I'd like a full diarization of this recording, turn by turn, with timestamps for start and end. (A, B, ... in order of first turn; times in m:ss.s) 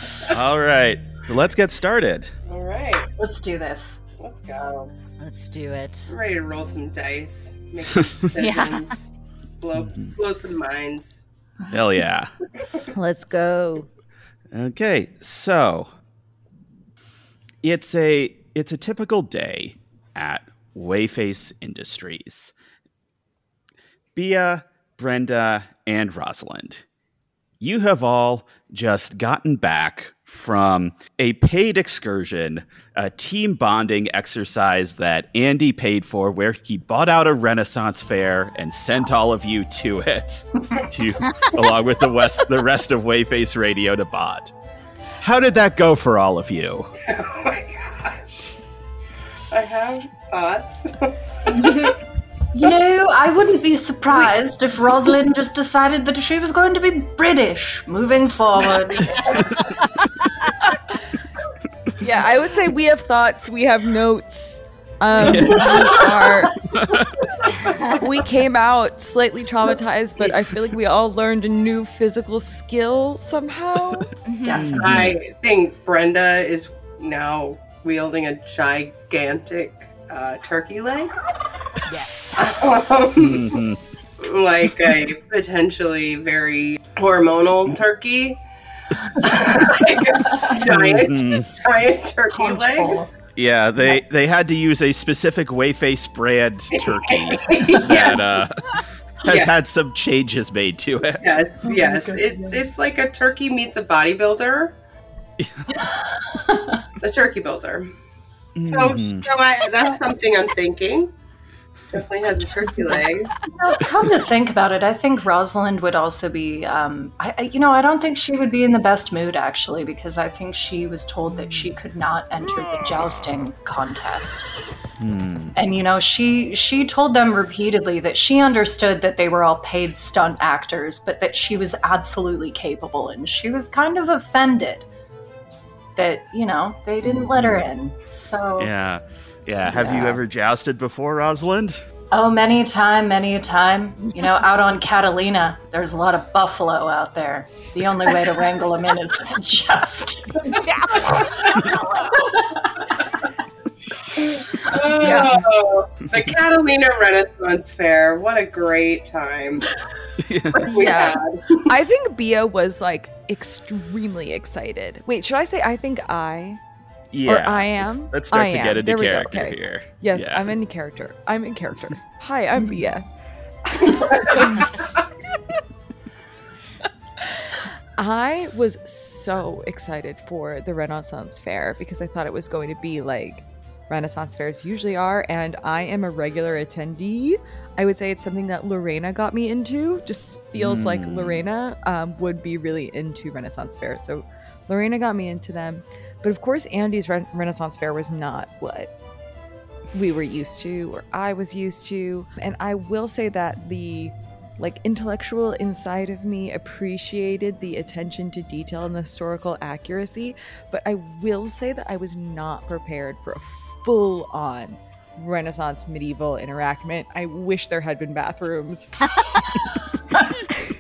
0:00.3-0:02.3 A
0:02.5-0:03.1 B
0:03.2-0:04.0 C
0:04.2-0:04.9 B
0:05.2-0:06.1 D
0:06.1-0:11.2 B
0:08.4-0:08.8 D
0:09.8-0:10.1 A
0:11.7-0:12.3 A
0:14.5-0:15.9 A
0:17.6-0:22.5 A
0:24.2-0:26.8 A
0:27.6-0:44.5 A
0:45.2-0:46.9 A
0:47.1-0:48.2 B
0:49.5-0:51.8 B
0:51.5-0:52.0 C
0:52.5-0:59.6 C
1:02.0-1:06.6 E
1:05.2-1:05.7 A
1:05.4-1:05.9 B
1:06.7-1:07.3 A
1:08.0-1:14.1 E
1:14.2-1:14.6 D
1:14.4-1:14.8 C
1:14.6-1:15.2 A
1:14.8-1:21.1 B
1:21.9-1:22.5 D
1:22.4-1:23.6 B
1:23.2-1:23.8 A
1:24.2-1:28.4 B
1:29.2-1:33.0 B
1:30.6-1:31.5 A
1:32.3-1:33.1 C
1:33.4-1:41.4 A
1:36.8-1:38.2 B
1:37.5-1:38.2 C
1:39.3-1:39.5 B
1:41.2-1:44.7 B
1:41.6-1:42.6 C
1:45.4-1:45.7 A
1:46.4-1:46.8 C
1:47.0-1:47.9 B
1:48.6-1:49.3 A
1:48.6-1:51.1 B
1:51.9-1:53.4 B
1:53.4-2:04.5 C
2:02.8-2:03.1 A
2:05.0-2:05.6 A
2:05.6-2:14.9 C
2:16.0-2:18.7 C
2:17.0-2:17.7 A
2:18.6-2:21.8 A
2:19.7-2:20.2 C
2:22.1-2:30.6 C
2:30.6-2:32.3 D
2:32.2-2:32.8 C
2:34.2-2:39.7 B
2:35.0-2:35.3 E
2:40.2-2:40.6 A
2:40.6-2:46.6 E
2:40.7-2:41.4 B
2:47.1-2:50.6 A
2:47.3-2:53.1 E
2:53.7-2:54.7 E
2:53.9-2:54.8 B
2:58.0-3:18.9 E
3:10.6-3:11.5 A
3:19.9-3:39.1 E